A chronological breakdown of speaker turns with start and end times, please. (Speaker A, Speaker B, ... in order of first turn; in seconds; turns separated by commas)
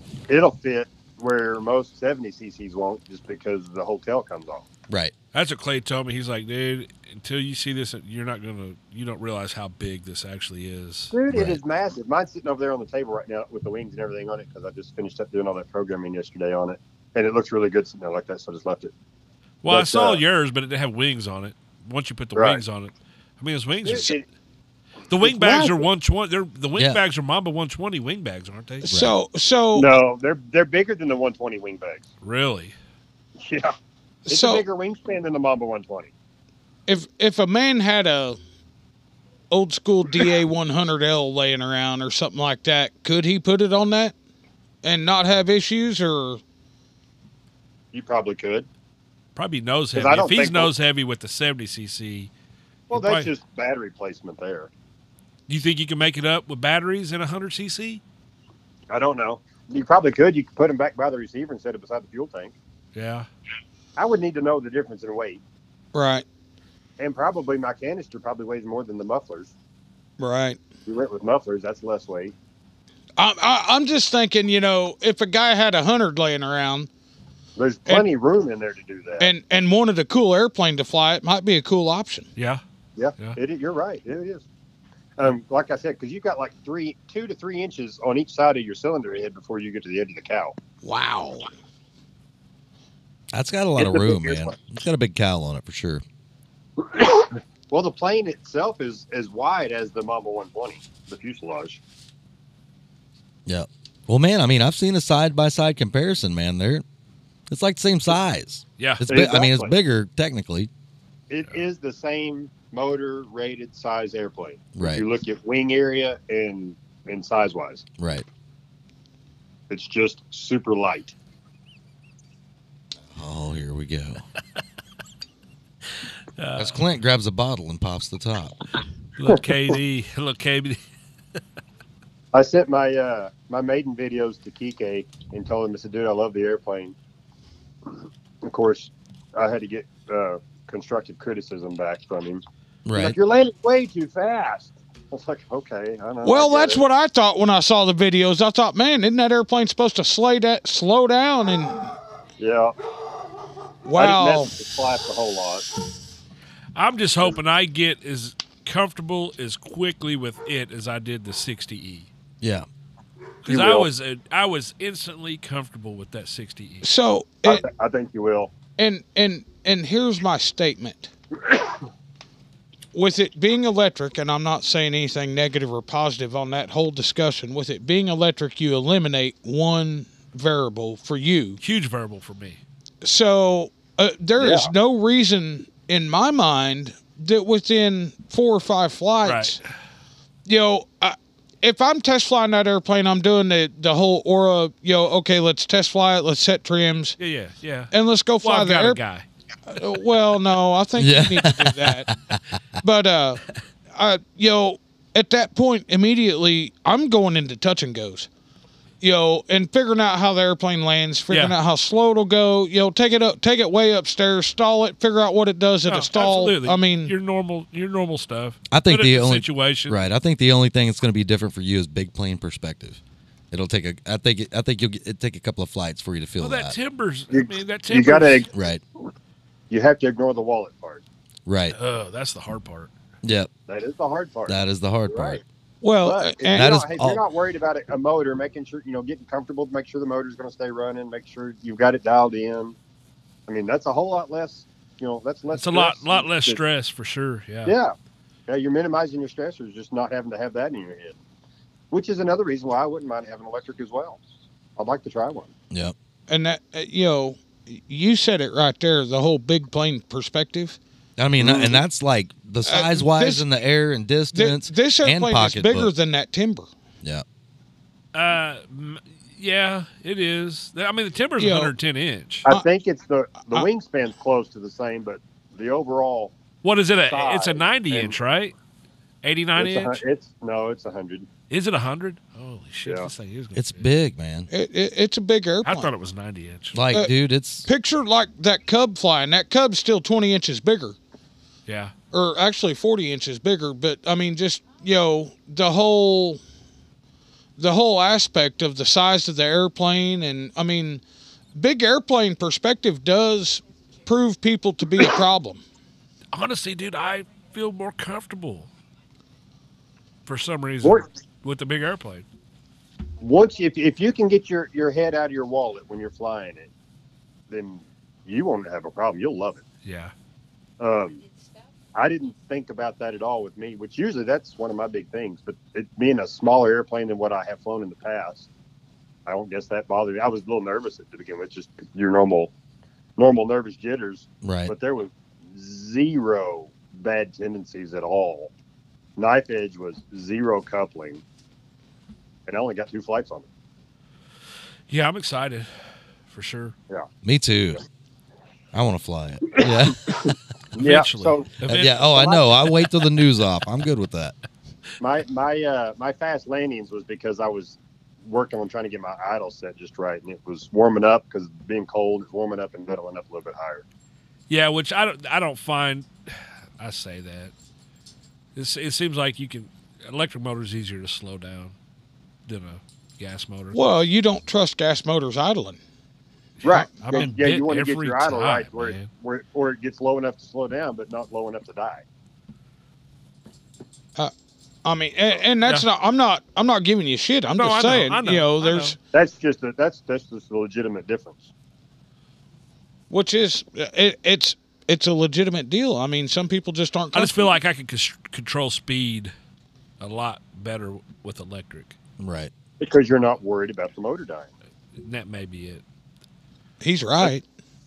Speaker A: 0.3-4.7, Speaker B: 4.9-5.1, Speaker C: 5.3-11.1, Speaker A: 11.1-18.9, Speaker B: 11.3-11.6, Speaker C: 19.6-24.1, Speaker A: 19.7-20.2, Speaker A: 22.3-22.6, Speaker A: 23.8-24.2, Speaker C: 25.1-28.9, Speaker A: 25.2-25.9, Speaker B: 26.7-27.0, Speaker B: 28.8-29.1, Speaker D: 28.9-29.9, Speaker A: 29.7-32.1, Speaker C: 32.2-32.7, Speaker A: 33.4-33.7, Speaker D: 34.3-34.6, Speaker A: 34.3-36.1, Speaker D: 36.9-38.4, Speaker D: 39.5-44.1, Speaker D: 44.8-46.4, Speaker A: 47.9-48.7, Speaker C: 49.4-52.3, Speaker A: 49.9-50.7, Speaker A: 52.9-54.7, Speaker C: 52.9-53.3, Speaker C: 55.5-58.0, Speaker A: 58.9-62.5, Speaker C: 62.9-63.3, Speaker A: 64.0-65.4, Speaker D: 65.9-66.2, Speaker A: 67.0-69.5, Speaker D: 70.2-70.6, Speaker A: 70.8-72.3, Speaker D: 73.2-76.9, Speaker A: 77.6-79.3, Speaker D: 79.2-82.3, Speaker A: 83.0-84.4, Speaker A: 85.2-90.5, Speaker D: 90.8-91.5, Speaker B: 93.3-96.0, Speaker A: 93.8-94.5, Speaker A: 96.9-101.8, Speaker B: 103.5-106.8, Speaker B: 107.5-110.7, Speaker A: 109.0-109.7, Speaker A: 111.3-117.8, Speaker B: 114.8-115.0, Speaker B: 118.0-118.2, Speaker A: 119.7-121.1, Speaker B: 123.1-124.2, Speaker C: 126.4-126.8, Speaker B: 126.5-128.6, Speaker C: 129.2-130.8, Speaker A: 132.3-136.9, Speaker A: 138.4-142.4, Speaker B: 142.8-143.2, Speaker A: 142.9-146.8, Speaker D: 146.2-151.9, Speaker A: 152.4-152.7, Speaker D: 153.8-154.5, Speaker A: 153.9-155.7, Speaker C: 156.7-162.1, Speaker B: 162.4-162.7, Speaker C: 163.4-166.9, Speaker A: 163.5-163.9, Speaker D: 166.8-167.7, Speaker A: 167.4-168.5, Speaker D: 168.8-171.1, Speaker D: 172.9-181.6, Speaker C: 181.6-182.6, Speaker D: 183.0-189.6, Speaker A: 184.4-184.7, Speaker C: 189.2-189.7, Speaker D: 190.4-197.2, Speaker C: 197.2-199.2, Speaker D: 197.9-199.0, Speaker D: 199.7-202.1, Speaker B: 201.0-202.4, Speaker D: 202.8-203.4, Speaker D: 203.9-208.3, Speaker D: 209.0-217.1, Speaker C: 211.3-211.5, Speaker C: 215.9-220.1, Speaker B: 218.7-223.0, Speaker B: 223.5-226.8, Speaker C: 226.4-228.5, Speaker A: 227.3-228.5, Speaker B: 228.5-228.8, Speaker A: 229.7-231.0, Speaker B: 231.5-231.8, Speaker C: 231.7-232.9, Speaker B: 233.2-233.5, Speaker A: 233.7-235.4, Speaker B: 234.5-235.4, Speaker D: 235.8-236.7, Speaker A: 236.0-242.8, Speaker B: 236.5-237.2, Speaker A: 243.5-246.6, Speaker C: 245.5-247.8, Speaker A: 247.6-247.9, Speaker A: 248.5-251.2, Speaker A: 251.9-254.2, Speaker A: 254.8-255.5, Speaker D: 256.3-260.8, Speaker B: 261.2-265.9, Speaker D: 261.4-261.7, Speaker D: 262.6-263.4, Speaker D: 264.3-266.7, Speaker C: 268.1-272.5, Speaker D: 271.4-271.7, Speaker A: 272.4-276.4, Speaker C: 276.6-278.5, Speaker A: 277.1-278.1, Speaker C: 279.2-280.0, Speaker A: 279.6-281.3, Speaker C: 281.5-283.9, Speaker A: 282.8-283.1, Speaker B: 283.5-284.5, Speaker D: 284.5-285.9, Speaker C: 285.6-286.8, Speaker B: 286.7-287.7, Speaker D: 287.6-290.9, Speaker C: 291.6-291.9, Speaker D: 292.1-296.4, Speaker D: 297.6-301.0, Speaker D: 301.5-305.6, Speaker C: 306.3-308.7, Speaker C: 310.2-312.2, Speaker A: 310.8-311.1, Speaker A: 313.2-316.7, Speaker A: 317.5-319.6, Speaker C: 319.8-320.1, Speaker A: 320.8-321.2, Speaker A: 321.9-328.5, Speaker A: 329.2-332.5, Speaker A: 333.2-338.5, Speaker B: 334.4-334.7, Speaker A: 339.2-341.2, Speaker A: 342.4-343.5, Speaker C: 344.9-345.7, Speaker C: 346.3-346.7, Speaker B: 347.2-347.8, Speaker B: 348.7-350.1, Speaker A: 349.5-352.5, Speaker C: 350.8-352.1, Speaker B: 351.7-354.3, Speaker A: 355.0-363.8, Speaker C: 364.5-367.5, Speaker C: 368.5-371.7, Speaker C: 372.5-373.8, Speaker D: 373.7-375.8, Speaker A: 376.6-382.0, Speaker D: 376.7-377.3, Speaker C: 377.0-379.1, Speaker D: 384.8-388.9, Speaker C: 387.6-388.9, Speaker A: 389.1-391.5, Speaker D: 393.1-397.5, Speaker C: 397.1-399.3, Speaker C: 400.0-402.0, Speaker B: 402.2-402.5, Speaker A: 402.8-404.5, Speaker C: 404.9-405.8, Speaker D: 406.8-407.4